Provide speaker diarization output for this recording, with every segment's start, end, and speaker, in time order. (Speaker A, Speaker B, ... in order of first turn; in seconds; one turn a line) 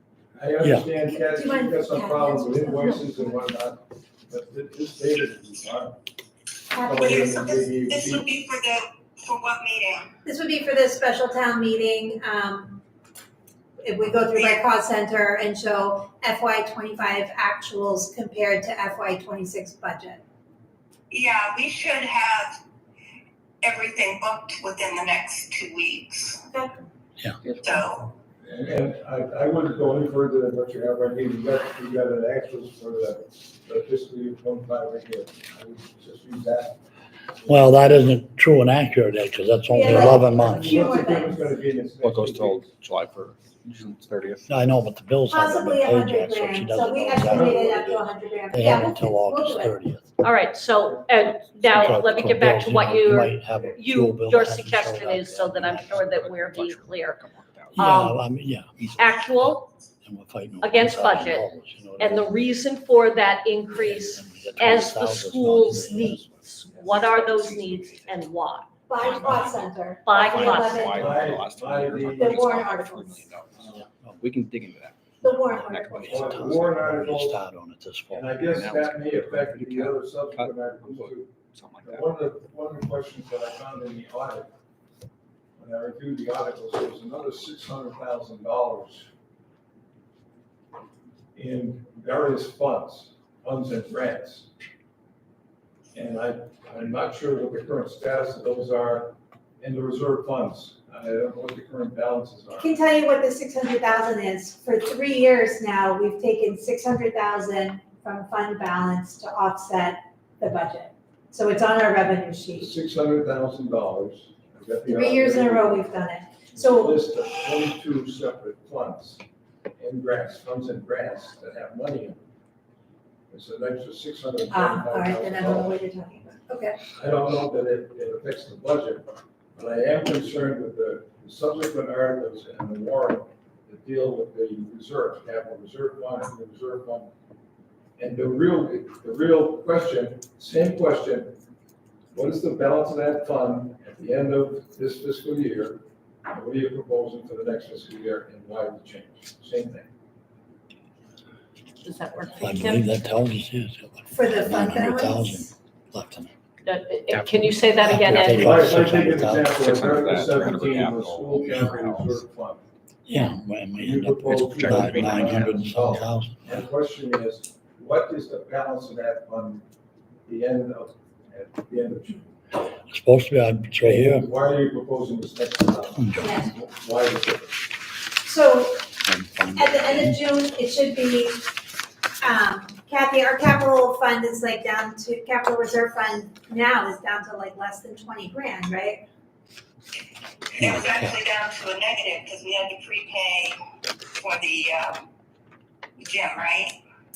Speaker A: 0.3-6.0
Speaker B: 1.0-3.4
Speaker B: 6.7-7.1
Speaker A: 6.8-8.3
Speaker C: 6.9-10.1
Speaker B: 10.2-12.8
Speaker B: 13.8-20.2
Speaker C: 14.4-14.6
Speaker C: 21.1-22.6
Speaker C: 23.6-26.8
Speaker C: 27.6-28.1
Speaker A: 28.4-36.8
Speaker D: 37.5-40.8
Speaker B: 39.7-41.5
Speaker A: 40.4-42.7
Speaker E: 42.0-44.7
Speaker D: 44.5-47.7
Speaker B: 45.3-49.8
Speaker A: 47.3-48.0
Speaker D: 48.5-50.1
Speaker F: 50.2-57.2
Speaker D: 51.7-56.1
Speaker E: 56.1-57.9
Speaker D: 57.7-62.4
Speaker F: 57.8-58.2
Speaker F: 59.0-59.7
Speaker F: 60.6-68.7
Speaker D: 63.7-66.3
Speaker E: 66.2-68.2
Speaker B: 68.9-71.2
Speaker E: 68.9-76.3
Speaker F: 70.0-71.0
Speaker A: 70.8-72.4
Speaker B: 72.2-73.3
Speaker A: 73.5-73.9
Speaker B: 75.2-76.5
Speaker D: 76.0-78.3
Speaker A: 76.1-77.4
Speaker A: 78.1-84.5
Speaker E: 78.5-82.1
Speaker A: 85.6-89.1
Speaker A: 91.3-94.5
Speaker A: 95.9-102.7
Speaker B: 102.6-112.7
Speaker A: 112.6-115.8
Speaker B: 114.9-117.0
Speaker A: 116.5-119.2
Speaker A: 119.8-122.2
Speaker A: 123.3-125.8
Speaker B: 124.5-126.8
Speaker A: 126.9-137.1
Speaker A: 138.0-141.3
Speaker A: 142.1-149.9
Speaker F: 151.8-152.9
Speaker D: 152.4-156.3
Speaker B: 154.1-155.6
Speaker F: 156.6-159.0
Speaker E: 157.1-158.5
Speaker D: 157.8-160.0
Speaker A: 158.3-162.6
Speaker E: 159.5-162.2
Speaker D: 163.1-166.4
Speaker A: 163.8-169.7
Speaker E: 164.5-165.7
Speaker A: 170.3-172.3
Speaker D: 172.7-174.3
Speaker A: 173.8-177.6
Speaker D: 176.0-176.4
Speaker B: 176.2-176.5
Speaker B: 178.2-178.9
Speaker D: 179.1-180.2
Speaker B: 179.6-181.5
Speaker B: 182.2-189.1
Speaker C: 190.5-193.6
Speaker D: 190.6-191.1
Speaker C: 194.2-195.0
Speaker C: 196.0-196.8